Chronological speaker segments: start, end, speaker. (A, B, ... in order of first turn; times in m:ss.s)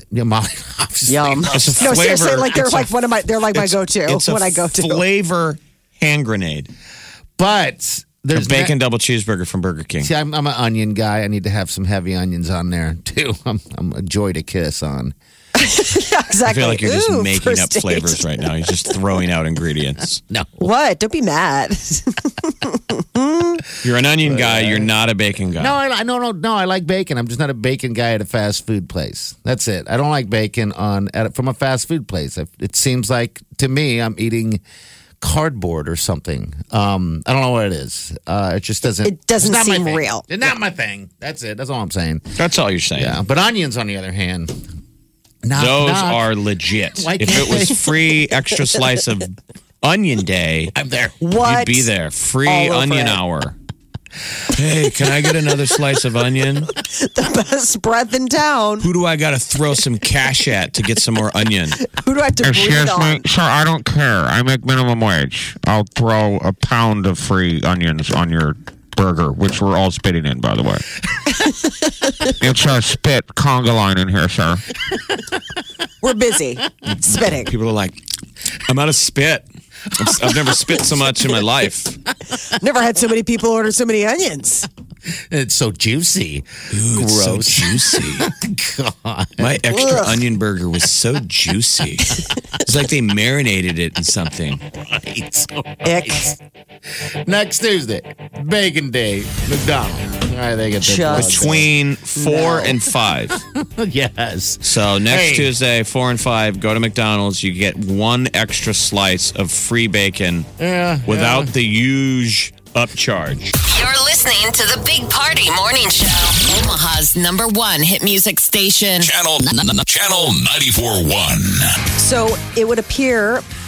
0:00.1-0:02.2 A
0:01.1-0:05.0 B
0:01.5-0:02.9 C
0:03.5-0:06.7 C
0:07.4-0:08.7 A
0:08.3-0:10.1 C
0:10.0-0:15.2 A
0:15.6-0:18.3 B
0:16.4-0:20.2 C
0:20.3-0:20.6 A
0:20.6-0:23.6 B
0:23.8-0:25.8 C
0:24.2-0:24.9 A
0:25.6-0:34.6 A
0:35.2-0:42.3 A
0:39.0-0:40.3 B
0:42.4-0:43.2 C
0:43.0-0:44.6 A
0:45.4-0:46.3 A
0:45.6-0:50.7 C
0:46.9-0:47.9 A
0:50.7-0:51.2 A
0:51.2-0:51.9 B
0:51.4-0:53.6 C
0:52.5-0:53.2 B
0:54.5-0:56.7 C
0:56.8-0:58.9 B
0:58.8-1:01.8 C
1:01.8-1:03.2 B
1:02.4-1:10.8 D
1:12.2-1:14.6 D
1:16.0-1:17.5 B
1:17.2-1:18.0 C
1:18.7-1:22.0 C
1:22.5-1:24.7 B
1:25.3-1:29.7 A
1:26.7-1:28.3 C
1:29.4-1:34.6 C
1:29.8-1:30.1 B
1:34.8-1:36.4 A
1:35.8-1:36.3 B
1:37.2-1:41.7 A
1:40.8-1:41.4 B
1:41.1-1:43.4 C
1:42.2-1:42.8 B
1:43.3-1:45.5 A
1:44.6-1:50.5 C
1:50.6-1:51.5 A
1:51.1-1:53.6 C
1:53.7-1:56.7 E
1:54.0-1:59.1 B
1:59.0-2:01.8 F
2:02.0-2:03.4 B